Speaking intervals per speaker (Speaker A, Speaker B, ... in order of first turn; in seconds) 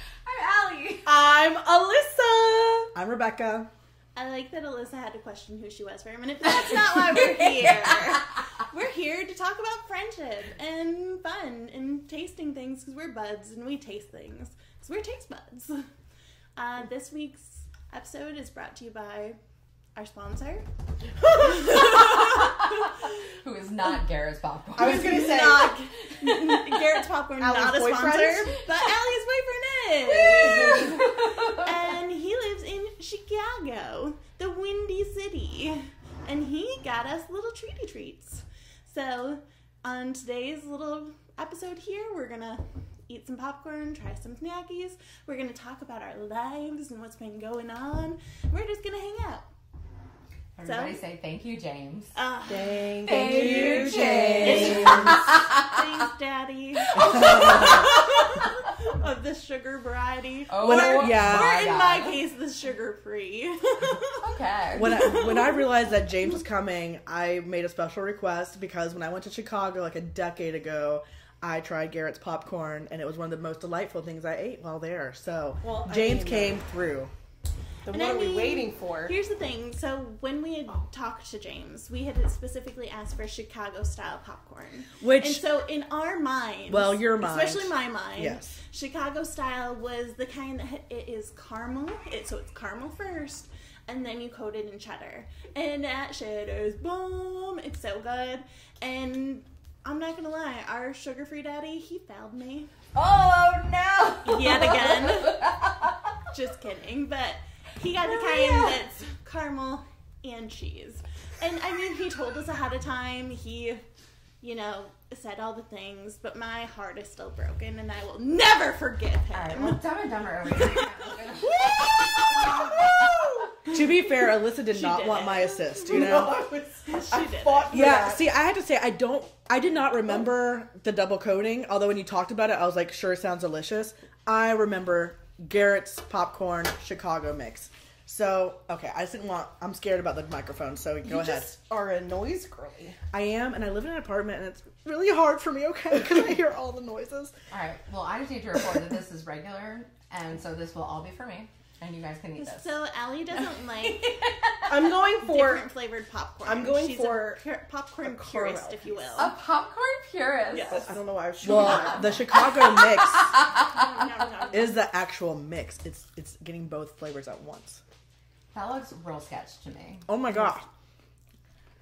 Speaker A: 0.3-1.1, 7.1-7.7, 22.0-25.6, 30.1-31.7, 50.6-52.1, 53.0-55.6, 57.0-57.9, 60.5-62.2, 64.2-65.2, 102.9-105.9, 108.2-108.5, 119.3-122.7, 147.5-152.7, 153.8-154.9, 159.2-160.9, 162.3-163.7, 168.5-170.4
Speaker B: 1.1-2.9, 21.2-22.1, 24.8-26.6, 27.4-28.6, 52.5-55.2, 75.6-76.6, 77.9-79.1, 121.8-123.7, 125.9-128.2, 141.0-143.0, 154.7-155.7, 156.4-157.4, 158.0-159.3, 160.6-162.2
Speaker C: 2.9-3.7, 60.6-61.5, 64.7-77.1, 85.0-85.4, 86.7-88.6, 123.7-126.4, 127.7-141.5, 143.1-147.3, 161.4-163.5, 164.5-167.8, 170.1-170.7
Speaker D: 4.2-15.9, 16.6-19.4, 19.9-20.7, 21.6-21.9, 24.8-49.5, 50.6-51.0, 52.1-65.6, 77.9-102.7, 104.2-105.5, 106.3-113.8, 114.4-119.8, 124.6-126.1, 126.8-127.8, 152.4-154.2, 155.2-159.3, 160.5-160.9, 163.9-164.8